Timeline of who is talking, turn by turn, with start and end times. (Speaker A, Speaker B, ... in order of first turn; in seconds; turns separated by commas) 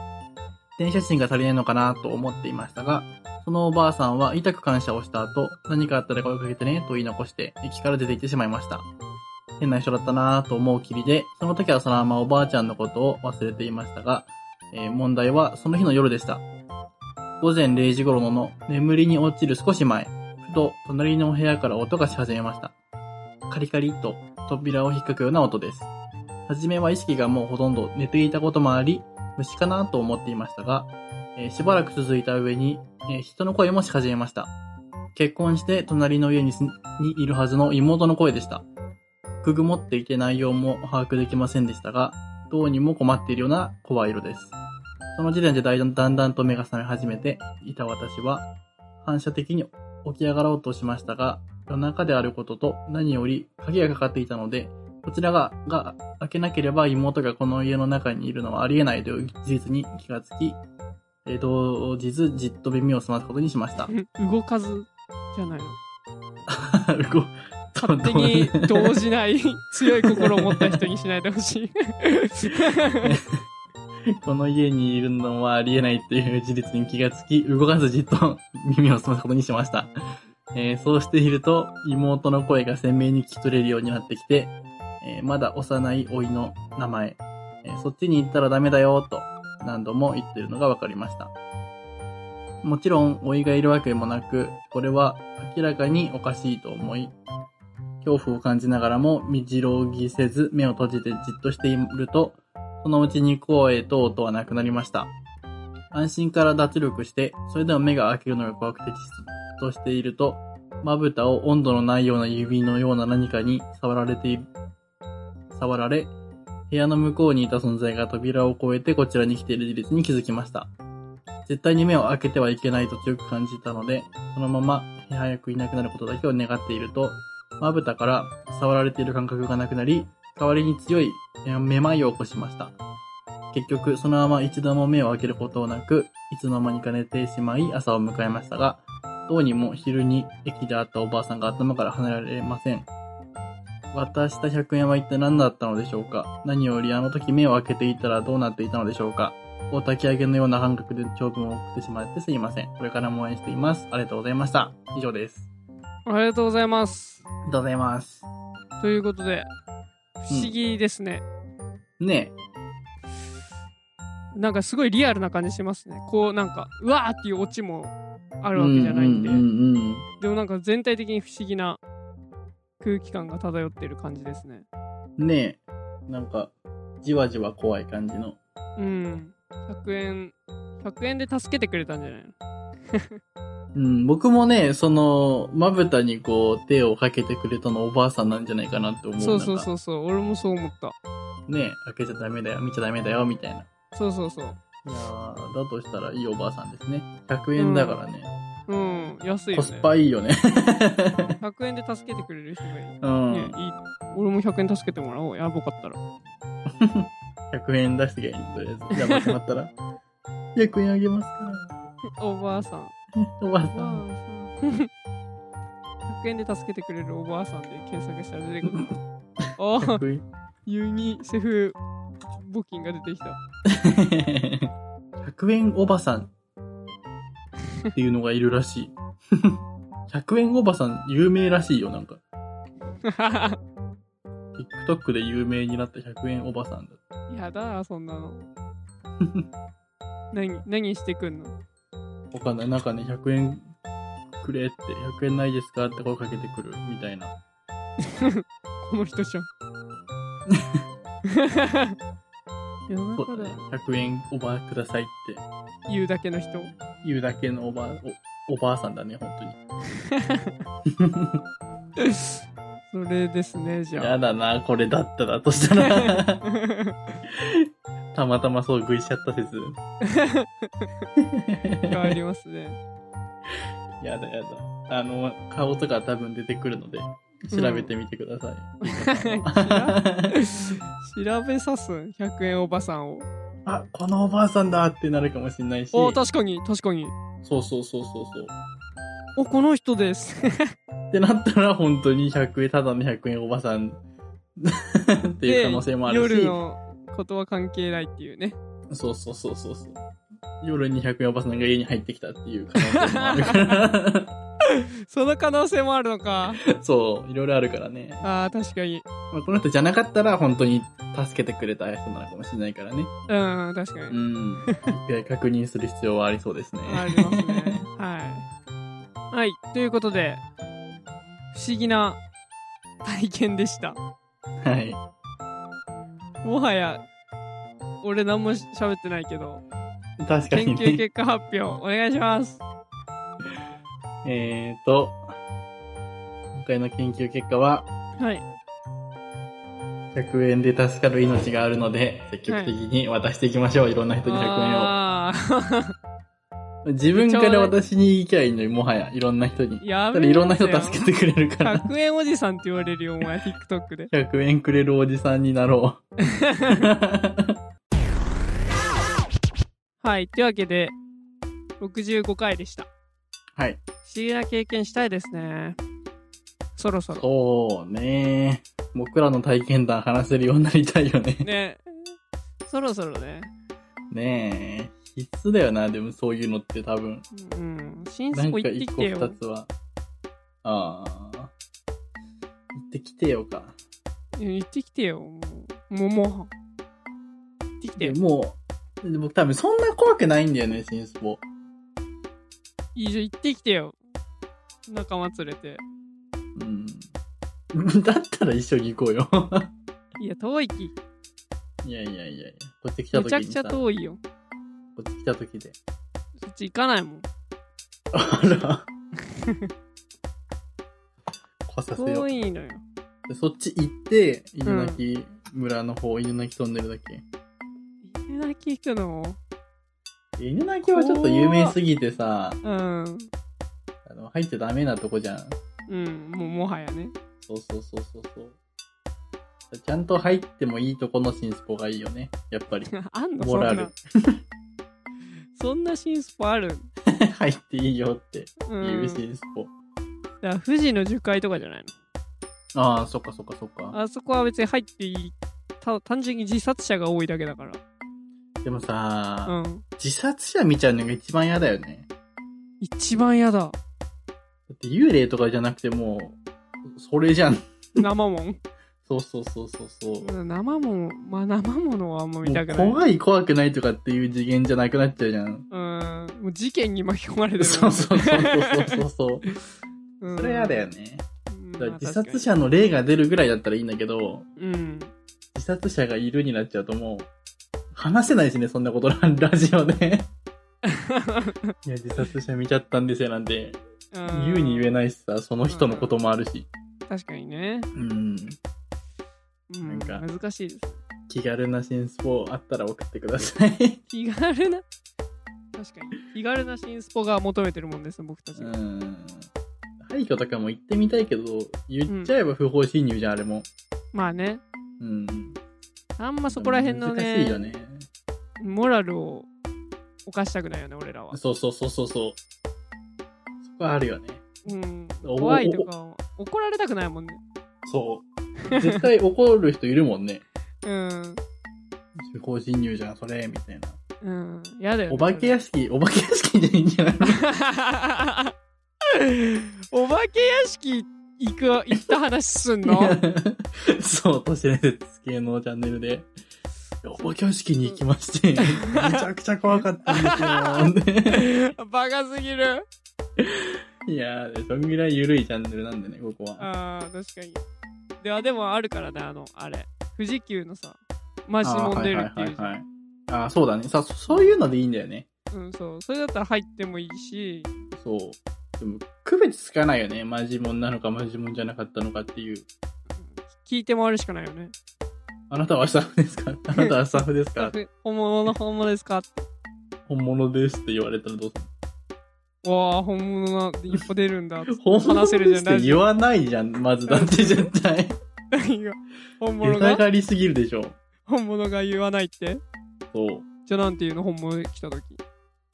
Speaker A: 0.8-8.8, Speaker A: 9.6-16.4, Speaker A: 17.4-22.7, Speaker A: 23.5-25.9, Speaker A: 26.5-34.5, Speaker A: 35.1-38.6, Speaker A: 39.4-44.5, Speaker A: 45.1-48.5, Speaker A: 49.0-60.6, Speaker A: 61.2-63.9, Speaker B: 63.9-65.8, Speaker A: 66.5-69.0, Speaker B: 67.8-73.1, Speaker A: 70.0-70.8, Speaker A: 73.0-73.4, Speaker A: 74.2-79.9, Speaker A: 80.5-91.3, Speaker A: 92.6-97.1, Speaker A: 98.0-105.1, Speaker A: 105.9-114.5, Speaker A: 115.5-116.1, Speaker A: 116.7-120.7, Speaker A: 121.5-132.7, Speaker A: 133.5-142.9, Speaker A: 143.9-155.5, Speaker B: 156.1-157.2, Speaker A: 157.4-158.2, Speaker B: 158.8-159.5, Speaker B: 160.2-161.2, Speaker A: 160.3-160.5, Speaker A: 162.0-162.3, Speaker B: 164.3-169.4, Speaker A: 168.5-170.1, Speaker B: 170.2-171.8, Speaker B: 172.8-174.7, Speaker A: 175.2-178.4, Speaker B: 178.8-182.3, Speaker A: 183.7-189.7, Speaker B: 189.2-190.9, Speaker A: 191.5-193.7, Speaker B: 193.9-194.6, Speaker A: 194.8-198.3, Speaker B: 197.6-198.0, Speaker B: 198.7-199.9, Speaker A: 199.5-201.3, Speaker B: 201.4-206.0, Speaker A: 203.0-203.6, Speaker A: 206.7-209.7, Speaker B: 208.9-209.3, Speaker A: 210.5-211.7, Speaker B: 212.2-212.9, Speaker A: 213.2-214.0, Speaker B: 213.7-214.9, Speaker B: 216.1-218.9, Speaker B: 219.6-220.0, Speaker A: 219.8-220.2, Speaker B: 220.7-221.8, Speaker B: 222.3-223.4, Speaker A: 223.7-226.3, Speaker A: 227.9-232.2, Speaker B: 233.0-233.6, Speaker A: 234.6-237.0, Speaker B: 237.3-238.4, Speaker A: 239.2-239.4, Speaker B: 240.3-241.5, Speaker A: 242.3-243.7, Speaker A: 244.4-247.3, Speaker B: 248.0-249.5, Speaker A: 250.5-250.8, Speaker B: 251.3-251.9, Speaker B: 252.9-253.6, Speaker A: 253.1-255.4, Speaker B: 255.9-256.7, Speaker A: 257.0-259.6, Speaker B: 260.0-260.5, Speaker A: 260.9-261.4, Speaker B: 262.0-262.3, Speaker B: 262.9-264.2, Speaker A: 264.0-266.4, Speaker B: 265.8-267.2, Speaker A: 267.3-269.8, Speaker B: 270.0-270.9, Speaker A: 271.1-272.1, Speaker B: 271.9-272.8, Speaker A: 274.0-280.4, Speaker B: 277.5-277.9, Speaker B: 278.8-283.3, Speaker A: 283.6-286.2, Speaker B: 285.9-287.1, Speaker A: 287.4-288.5, Speaker B: 289.4-290.7, Speaker A: 291.1-294.0, Speaker A: 294.6-296.6, Speaker B: 295.4-298.6, Speaker A: 298.9-300.0, Speaker A: 300.6-304.3, Speaker B: 302.8-303.8, Speaker B: 304.6-306.6, Speaker A: 306.6-308.2, Speaker B: 308.2-309.1, Speaker A: 309.3-313.1, Speaker B: 313.3-314.9, Speaker A: 314.1-317.8, Speaker B: 316.9-318.4, Speaker B: 319.3-320.4, Speaker B: 321.5-322.2, Speaker B: 323.0-324.0, Speaker A: 324.6-325.0, Speaker B: 326.4-327.0, Speaker B: 328.0-329.6, Speaker A: 330.2-331.0, Speaker B: 330.5-332.6, Speaker A: 334.2-335.2, Speaker A: 336.5-337.9, Speaker B: 338.2-338.4, Speaker A: 340.1-344.9, Speaker B: 342.5-342.7, Speaker B: 344.2-345.9, Speaker A: 346.8-351.9, Speaker B: 347.1-347.7, Speaker B: 349.8-351.1, Speaker B: 351.6-354.1, Speaker A: 354.1-356.0, Speaker B: 356.2-356.9, Speaker A: 356.7-357.6, Speaker B: 360.0-360.9, Speaker B: 361.8-362.9, Speaker B: 364.0-365.8, Speaker B: 366.8-367.2, Speaker A: 367.1-371.5, Speaker B: 371.4-372.1, Speaker B: 372.6-373.5, Speaker A: 374.1-377.2, Speaker B: 377.3-379.4, Speaker A: 378.3-379.7, Speaker A: 380.6-381.5, Speaker A: 382.8-383.8, Speaker B: 384.4-386.5, Speaker B: 387.8-388.2, Speaker A: 388.0-391.4, Speaker B: 392.9-393.9, Speaker B: 394.9-395.8, Speaker A: 396.6-397.1, Speaker A: 397.7-399.7, Speaker B: 400.2-400.9, Speaker A: 401.8-403.8, Speaker B: 403.1-404.2, Speaker A: 404.9-405.8, Speaker B: 406.4-407.3, Speaker A: 408.1-408.9, Speaker B: 409.3-409.7, Speaker A: 411.6-412.3, Speaker B: 411.9-412.8, Speaker A: 413.3-417.2, Speaker B: 414.6-415.0, Speaker B: 418.0-419.4, Speaker A: 420.4-422.6, Speaker B: 420.8-421.8, Speaker B: 422.6-423.3, Speaker A: 424.1-425.6, Speaker B: 425.9-427.1, Speaker A: 427.4-428.6, Speaker A: 429.7-434.4, Speaker B: 432.9-433.9, Speaker B: 435.5-436.9, Speaker A: 437.1-439.7, Speaker B: 438.7-439.2, Speaker B: 440.4-441.9, Speaker A: 442.7-443.9, Speaker B: 443.9-447.8, Speaker A: 448.6-452.1, Speaker B: 449.4-449.8, Speaker B: 452.8-453.8, Speaker A: 454.7-456.4, Speaker A: 456.9-458.0, Speaker B: 458.0-458.6, Speaker A: 459.1-460.3, Speaker B: 460.2-463.0, Speaker A: 462.4-465.6, Speaker B: 465.7-469.6, Speaker A: 467.6-469.4, Speaker B: 470.2-470.9, Speaker A: 470.3-471.2, Speaker B: 471.5-472.5, Speaker A: 471.8-474.4, Speaker B: 474.6-475.1, Speaker A: 475.5-477.3, Speaker A: 477.9-480.3, Speaker B: 480.8-481.7, Speaker A: 481.8-486.7, Speaker B: 484.1-484.9, Speaker B: 485.7-486.1, Speaker B: 487.1-487.9, Speaker A: 487.9-488.6, Speaker B: 489.7-491.0, Speaker A: 489.8-490.2, Speaker A: 491.3-494.0, Speaker B: 494.1-494.8, Speaker B: 495.7-498.7, Speaker A: 498.6-499.5, Speaker A: 500.0-503.7, Speaker B: 502.1-502.3, Speaker B: 504.1-504.6, Speaker A: 505.0-505.6, Speaker B: 506.2-507.7, Speaker A: 506.5-508.1, Speaker B: 508.6-509.5, Speaker B: 510.2-511.4, Speaker A: 511.3-512.4, Speaker A: 513.6-514.5, Speaker B: 514.6-517.4, Speaker A: 515.2-515.9, Speaker A: 517.9-520.4, Speaker B: 518.7-519.0, Speaker B: 520.8-521.4, Speaker A: 522.2-524.0, Speaker B: 524.2-525.6, Speaker A: 525.1-527.4, Speaker B: 527.2-528.5, Speaker B: 529.1-533.2, Speaker A: 532.8-536.3, Speaker A: 537.0-541.5, Speaker B: 538.6-539.2, Speaker B: 540.0-542.8, Speaker A: 543.4-546.7, Speaker B: 546.6-547.6, Speaker B: 548.2-552.7, Speaker A: 551.6-555.3, Speaker B: 554.3-554.5, Speaker B: 555.5-557.7, Speaker A: 557.9-562.7, Speaker B: 563.2-564.7, Speaker A: 565.5-567.7, Speaker B: 566.8-569.5, Speaker A: 570.1-571.7, Speaker B: 572.6-576.0, Speaker A: 574.7-578.2, Speaker B: 577.1-577.7, Speaker B: 578.5-580.0, Speaker A: 579.6-581.0, Speaker B: 581.2-582.6, Speaker A: 583.1-583.5, Speaker B: 583.6-585.2